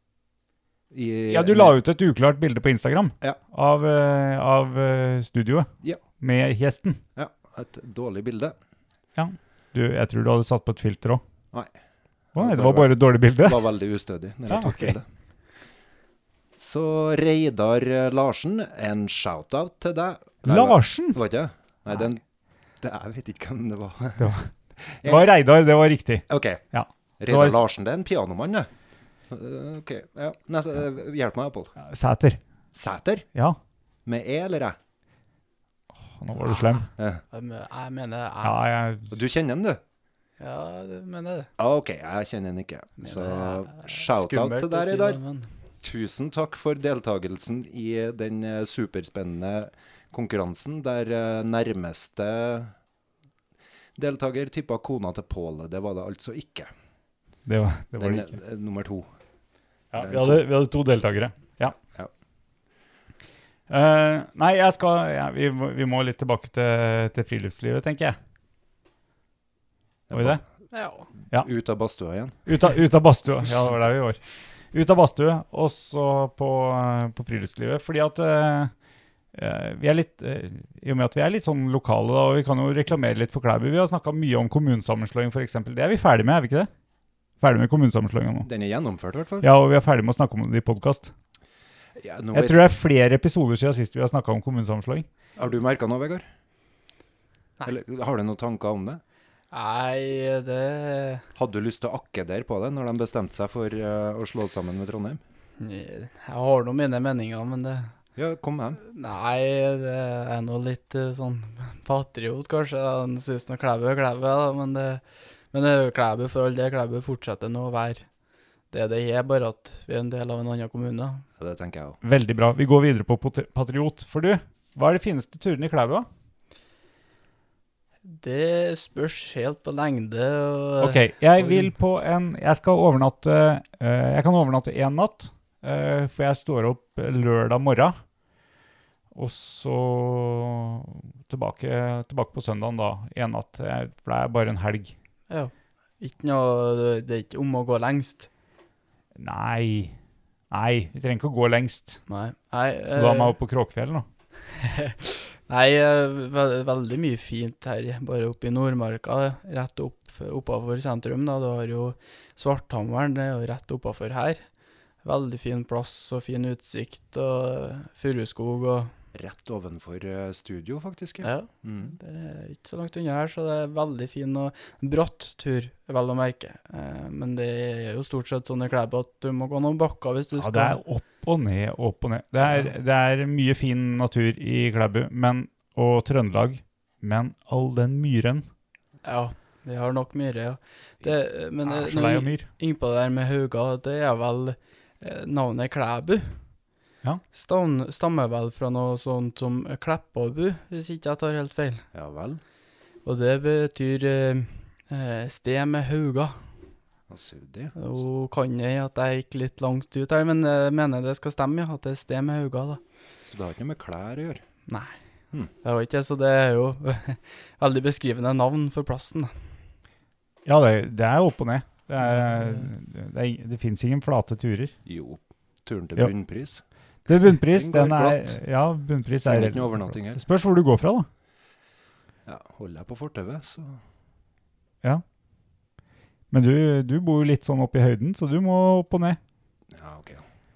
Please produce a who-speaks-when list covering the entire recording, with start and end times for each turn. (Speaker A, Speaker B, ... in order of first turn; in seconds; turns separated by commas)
Speaker A: 0.9-1.8, Speaker B: 1.3-7.0, Speaker A: 7.2-8.6, Speaker B: 9.2-11.2, Speaker A: 12.3-15.1, Speaker B: 12.4-13.7, Speaker B: 14.5-14.9, Speaker A: 16.5-22.2, Speaker B: 20.4-21.2, Speaker A: 22.8-24.4, Speaker B: 24.2-24.5, Speaker A: 24.9-25.3, Speaker B: 25.0-27.6, Speaker A: 26.3-26.6, Speaker A: 27.2-28.7, Speaker A: 29.3-31.7, Speaker B: 31.8-32.4, Speaker A: 32.7-33.3, Speaker A: 34.0-34.8, Speaker B: 36.0-36.9, Speaker C: 36.4-38.6, Speaker A: 37.0-37.2, Speaker B: 38.4-39.1, Speaker A: 39.1-39.8, Speaker C: 40.4-41.5, Speaker A: 41.6-45.2, Speaker C: 43.0-45.5, Speaker A: 45.8-52.7, Speaker A: 54.0-56.7, Speaker B: 57.5-58.3, Speaker A: 58.0-59.1, Speaker B: 59.9-61.8, Speaker A: 59.9-60.5, Speaker B: 63.7-68.2, Speaker A: 70.1-70.4, Speaker B: 70.1-70.4, Speaker C: 70.7-71.1, Speaker A: 71.3-72.5, Speaker B: 72.5-78.7, Speaker B: 79.3-86.7, Speaker B: 87.4-88.5, Speaker A: 88.4-89.5, Speaker B: 89.4-91.1, Speaker A: 91.9-92.7, Speaker B: 92.3-95.0, Speaker A: 95.4-96.2, Speaker A: 97.6-99.0, Speaker C: 99.5-101.2, Speaker A: 101.4-105.2, Speaker C: 105.6-107.9, Speaker A: 108.2-108.8, Speaker C: 108.8-118.1, Speaker C: 118.7-121.2, Speaker A: 121.4-122.0, Speaker B: 122.0-126.1, Speaker C: 128.0-131.7, Speaker B: 130.8-138.0, Speaker B: 139.1-144.9, Speaker C: 145.3-148.3, Speaker B: 149.1-149.9, Speaker B: 150.5-152.0, Speaker C: 152.1-153.3, Speaker B: 152.9-154.1, Speaker C: 154.5-164.4, Speaker C: 165.0-168.9, Speaker A: 169.1-171.9, Speaker C: 171.2-180.8, Speaker B: 180.4-188.5, Speaker C: 189.0-196.4, Speaker B: 191.6-192.5, Speaker C: 197.3-201.9, Speaker A: 201.9-202.4, Speaker C: 203.0-206.4, Speaker A: 207.1-208.0, Speaker C: 207.8-212.8, Speaker A: 213.2-214.4, Speaker C: 214.7-214.9, Speaker C: 215.6-219.5, Speaker B: 220.4-224.7, Speaker C: 222.0-222.7, Speaker A: 224.8-226.6, Speaker B: 227.1-231.1, Speaker A: 227.5-228.4, Speaker A: 229.2-230.2, Speaker A: 232.2-233.8, Speaker B: 236.3-239.2, Speaker A: 239.7-240.2